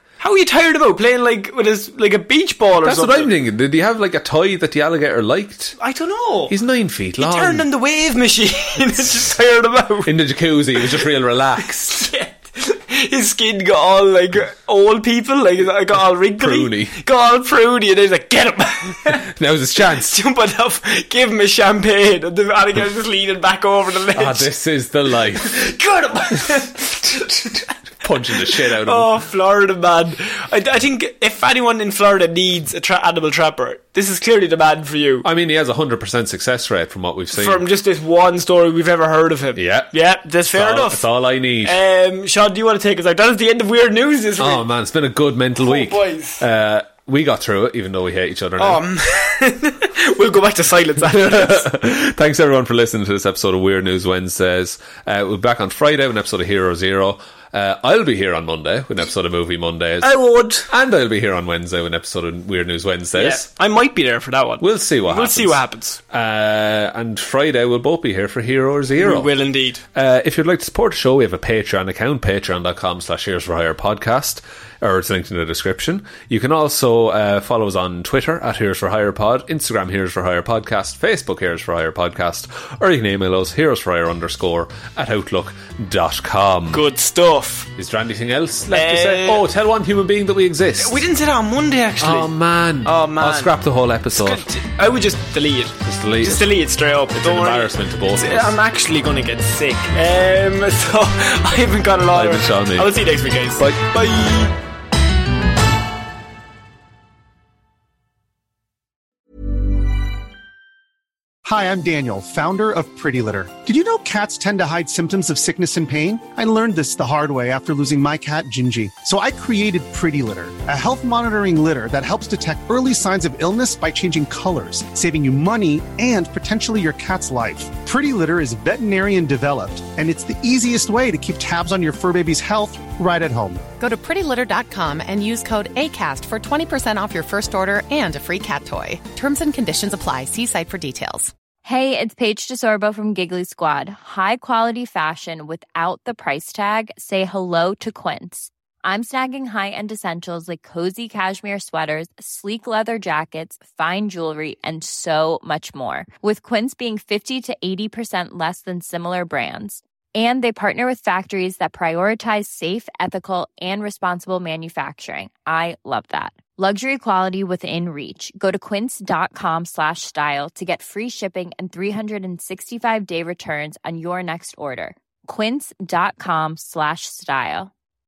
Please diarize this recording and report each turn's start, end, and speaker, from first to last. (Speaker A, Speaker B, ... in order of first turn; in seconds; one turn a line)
Speaker A: 0.2-3.3
Speaker B: 2.8-5.8
Speaker A: 5.8-6.5
Speaker B: 6.5-7.6
Speaker A: 7.2-10.1
Speaker B: 10.0-12.0
Speaker A: 11.7-19.3
Speaker B: 16.4-17.0
Speaker B: 19.1-20.2
Speaker A: 20.0-24.5
Speaker B: 24.1-25.7
Speaker A: 25.3-27.7
Speaker B: 27.6-29.1
Speaker A: 28.4-35.2
Speaker B: 35.2-37.6
Speaker A: 37.3-41.0
Speaker B: 39.5-39.9
Speaker B: 40.5-41.8
Speaker A: 41.6-44.7
Speaker B: 44.4-48.8
Speaker A: 45.6-46.4
Speaker A: 48.6-51.7
Speaker B: 51.0-60.1
Speaker A: 60.0-60.7
Speaker B: 60.7-63.5
Speaker A: 63.1-66.0
Speaker B: 64.6-69.3
Speaker A: 69.0-69.8
Speaker B: 69.9-86.8
Speaker A: 86.7-87.7
Speaker B: 87.8-91.0
Speaker A: 88.7-89.4
Speaker A: 90.8-92.3
Speaker B: 92.0-94.4
Speaker A: 92.8-93.5
Speaker A: 94.1-104.5
Speaker B: 95.8-96.5
Speaker B: 97.1-98.5
Speaker B: 102.1-102.9
Speaker B: 103.6-103.8
Speaker C: 111.4-133.6
Speaker D: 133.8-141.3
Speaker E: 141.6-177.7